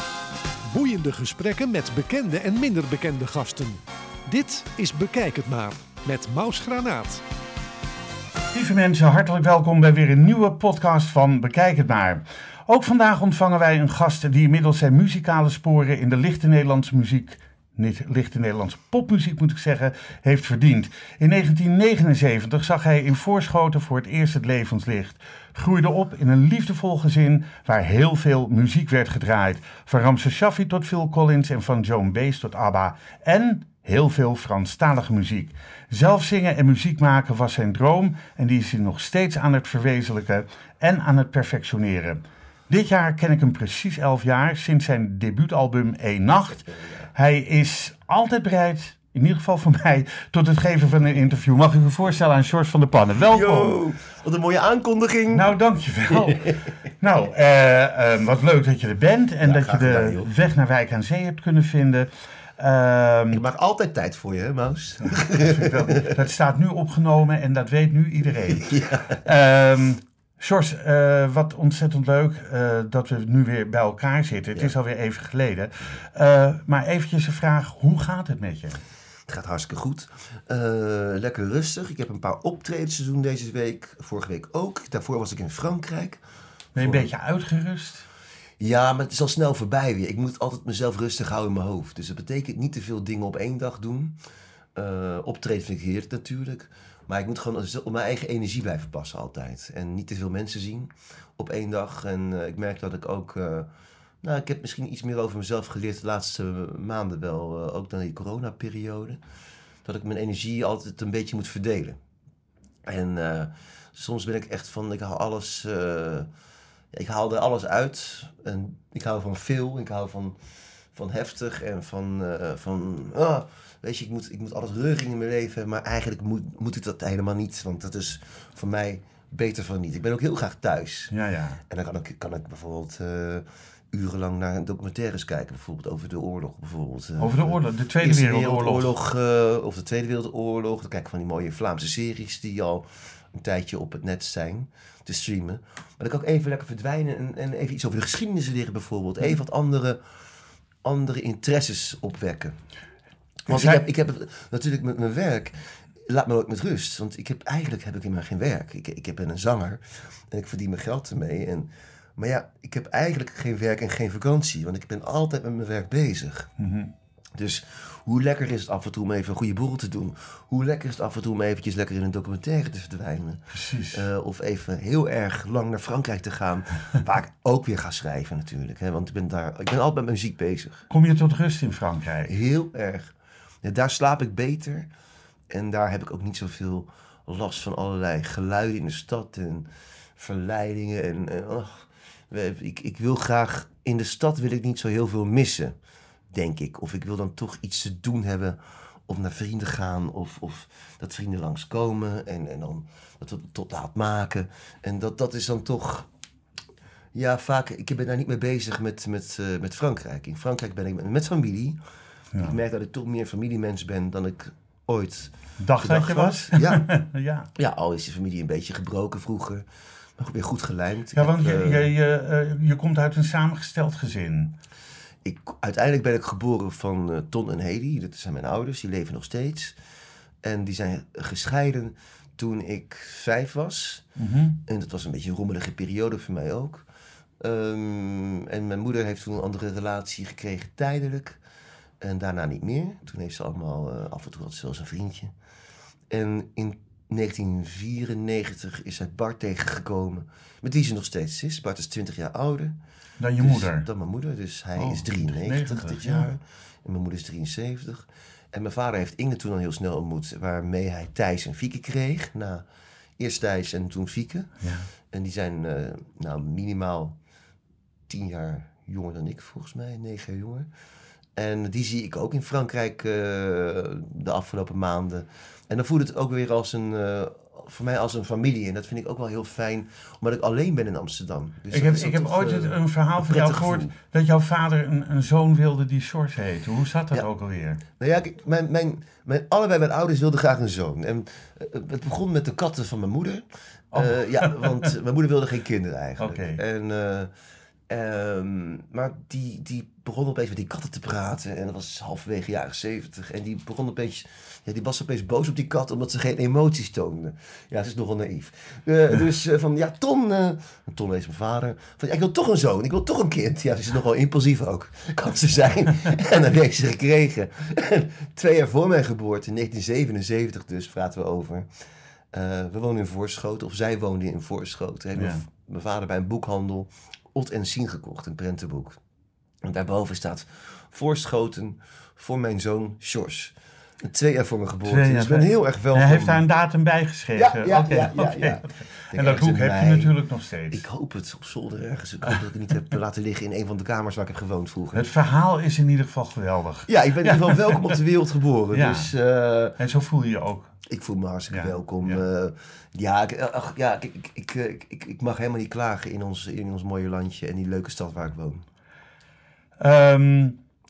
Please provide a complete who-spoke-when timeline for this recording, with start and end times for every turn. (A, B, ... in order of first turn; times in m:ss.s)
0:00.7-0:07.2 A
0:08.5-0:53.8 B
0:46.7-0:47.1 C
0:53.2-0:55.5 C
0:55.3-1:03.4 B
0:56.1-0:56.6 C
0:59.4-1:00.3 C
1:03.3-1:06.2 C
1:05.1-1:18.8 B
1:08.5-1:09.2 C
1:19.3-1:26.2 C
1:26.7-1:28.0 B
1:26.8-1:27.1 C
1:28.6-1:34.2 C
1:34.8-1:43.7 C
1:44.2-1:49.2 C
1:49.8-1:52.0 C
1:52.8-1:56.3 C
1:56.9-2:00.4 C
2:00.9-2:11.1 C
2:11.1-2:11.6 B
2:11.7-2:30.0 C
2:17.2-2:18.9 B
2:30.8-2:32.6 C
2:33.5-2:46.5 C
2:33.5-2:33.8 B
2:46.6-2:46.9 B
2:47.4-3:00.9 C
2:53.5-2:54.0 B
3:00.9-3:02.3 B
3:02.2-3:04.9 C
3:05.5-3:15.7 C
3:16.3-3:26.1 C
3:27.1-3:31.8 C
3:32.4-3:36.9 C
3:35.6-3:37.5 B
3:37.6-3:39.6 C
3:40.2-3:41.9 C
3:41.1-3:44.6 B
3:45.2-3:49.8 C
3:50.4-3:54.1 C
3:54.2-3:54.6 B
3:54.6-3:56.8 C
3:57.4-4:01.4 C
4:02.0-4:05.3 C
4:06.1-4:12.8 C
4:13.2-4:13.9 B
4:13.4-4:22.6 C
4:14.8-4:16.3 B
4:23.2-4:24.5 C
4:24.6-4:24.9 B
4:25.1-4:27.2 C
4:28.1-4:30.7 C
4:31.4-4:43.9 C
4:41.7-4:47.8 B
4:48.0-4:57.3 C
4:53.9-4:54.9 B
4:56.2-4:56.6 B
4:57.9-5:21.7 C
5:22.3-5:29.0 C
5:25.2-5:25.4 B
5:29.6-5:36.4 C
5:34.8-5:40.8 B
5:37.3-5:40.1 C
5:40.7-5:45.1 C
5:44.9-5:48.0 B
5:46.9-5:49.8 C
5:48.7-5:49.1 B
5:49.8-5:50.7 B
5:50.8-5:58.6 C
5:51.5-5:52.2 B
5:59.8-6:00.6 B